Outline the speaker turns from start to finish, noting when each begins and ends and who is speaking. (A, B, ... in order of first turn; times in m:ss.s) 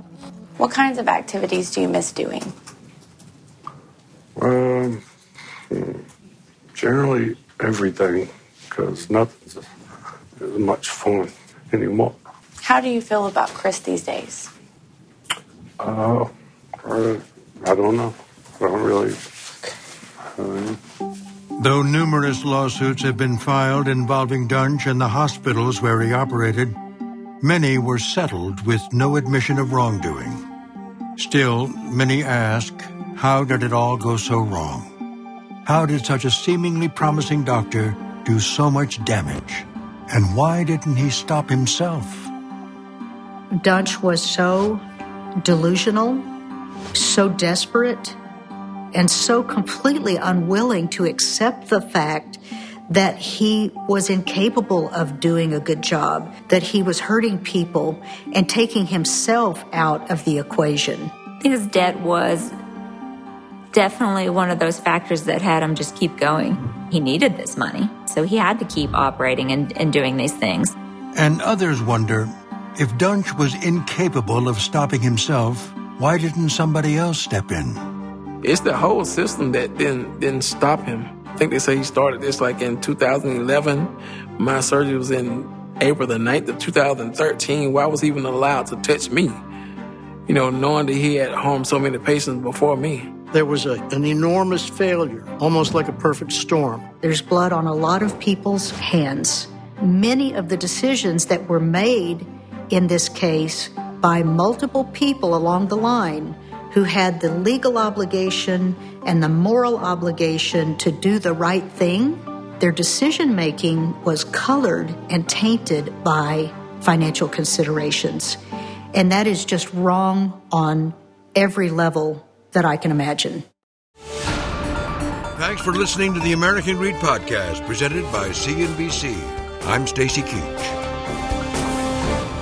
0:00.6-0:02.5 A
0:04.4-0:05.0 B
0:05.7-0:06.0 B
0:06.8-0:09.6 B
0:10.4-0:12.2 B
0:12.6-0:14.5 A
0:15.8-0:16.3 B
0:16.8-0:19.2 B
0:20.4-0:20.8 B
0:21.6-0:26.8 C
0:27.4-0:30.4 C
0:31.2-0:34.9 C
0:35.6-0:42.3 C
0:43.6-0:44.8 D
0:45.4-0:46.3 D
0:46.9-0:48.2 D
0:48.9-1:01.1 D
1:01.4-1:02.6 E
1:03.7-1:10.8 E
1:11.1-1:17.8 C
1:18.4-1:29.4 F
1:30.3-1:33.1 F
1:33.3-1:36.9 G
1:37.0-1:58.4 D
1:58.9-2:03.5 D
2:05.4-2:10.8 C